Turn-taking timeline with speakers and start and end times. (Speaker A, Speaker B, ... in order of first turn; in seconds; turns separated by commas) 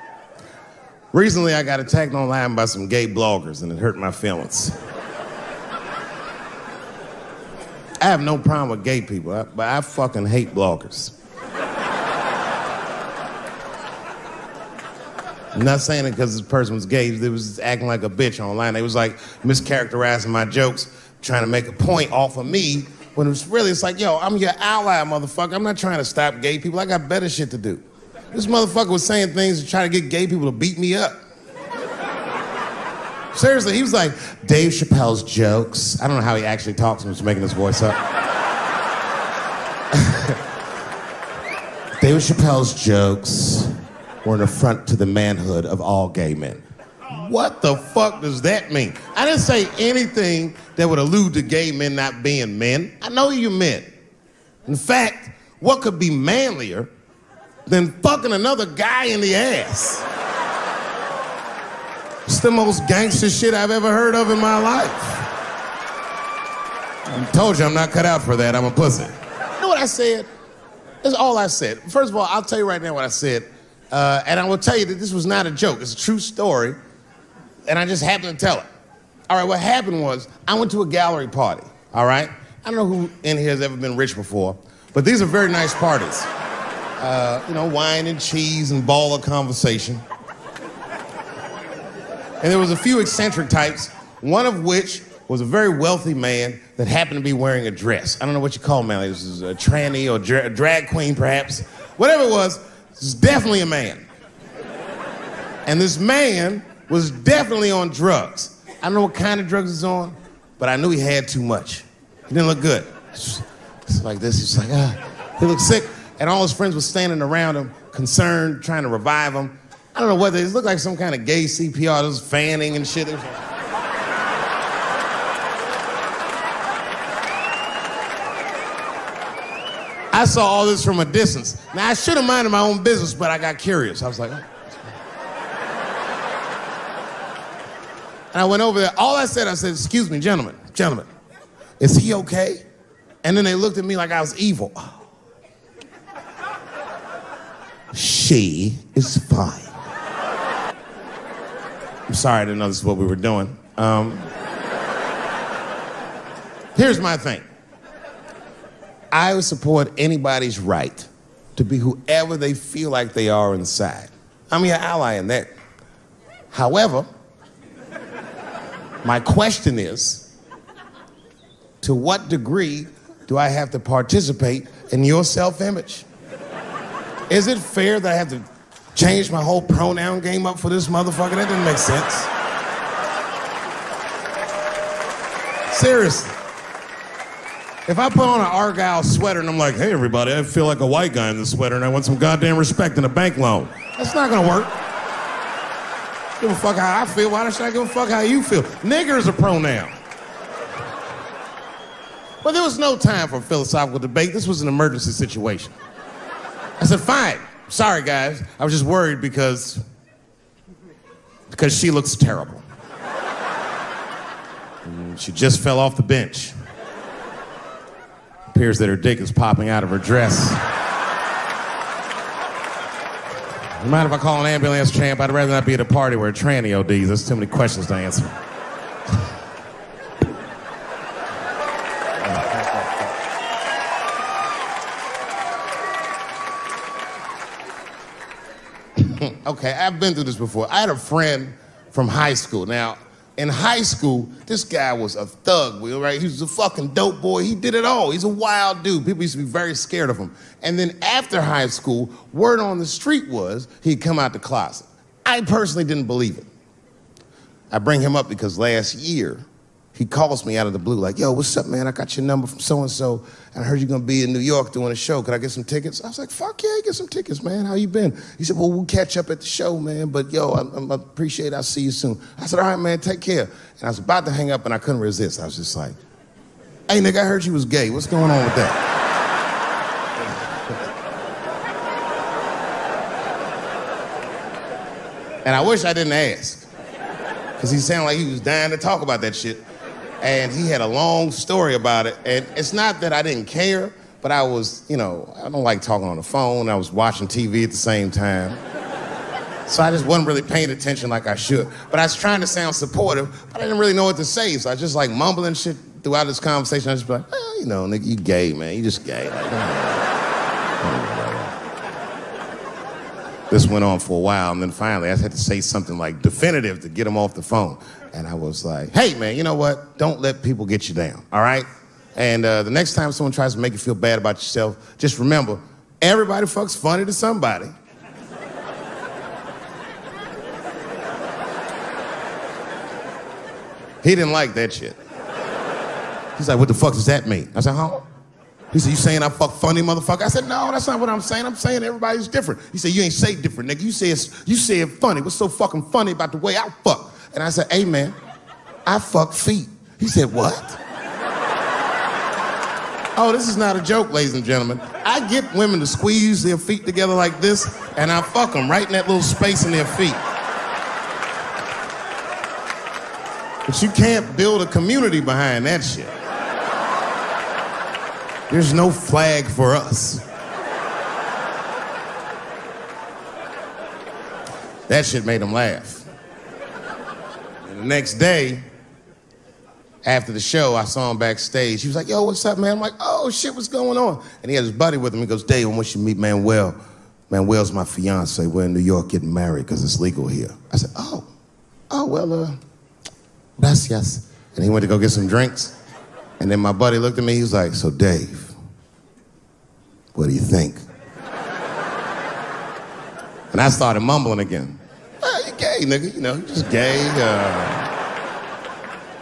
Speaker A: 1.1-4.8, Speaker A: 8.0-11.1, Speaker A: 15.5-31.2, Speaker A: 33.3-38.0, Speaker A: 39.9-40.4, Speaker A: 42.0-53.9, Speaker A: 54.7-56.9, Speaker A: 57.7-60.1, Speaker A: 62.3-65.3, Speaker A: 67.1-70.3, Speaker A: 71.0-76.8, Speaker A: 77.7-78.7, Speaker A: 79.3-86.3, Speaker A: 87.0-90.0, Speaker A: 92.4-104.1, Speaker A: 105.7-123.5, Speaker A: 130.1-134.8, Speaker A: 138.3-141.1, Speaker A: 141.8-142.6, Speaker A: 143.2-145.0, Speaker A: 147.9-149.8, Speaker A: 152.1-154.3, Speaker A: 156.8-157.5, Speaker A: 159.1-165.5, Speaker A: 166.5-167.1, Speaker A: 169.0-170.3, Speaker A: 171.8-176.1, Speaker A: 177.3-182.3, Speaker A: 185.7-186.4, Speaker A: 187.9-194.7, Speaker A: 196.4-199.9, Speaker A: 202.4-205.8, Speaker A: 206.8-209.8, Speaker A: 211.5-212.6, Speaker A: 214.8-216.6, Speaker A: 218.5-220.7, Speaker A: 223.8-228.3, Speaker A: 232.3-232.8, Speaker A: 239.0-256.5, Speaker A: 257.7-276.0, Speaker A: 276.9-278.8, Speaker A: 285.4-286.7, Speaker A: 287.6-289.6, Speaker A: 290.2-298.6, Speaker A: 299.7-310.1, Speaker A: 310.8-311.6, Speaker A: 313.5-327.7, Speaker A: 334.0-335.0, Speaker A: 336.4-338.1, Speaker A: 338.7-348.2, Speaker A: 348.9-350.8, Speaker A: 353.2-360.2, Speaker A: 363.7-366.1, Speaker A: 368.5-370.2, Speaker A: 374.9-376.1, Speaker A: 377.6-378.6, Speaker A: 380.0-386.8, Speaker A: 387.3-391.3, Speaker A: 391.9-392.6, Speaker A: 393.6-395.8, Speaker A: 396.4-398.6, Speaker A: 400.1-400.8, Speaker A: 403.5-407.9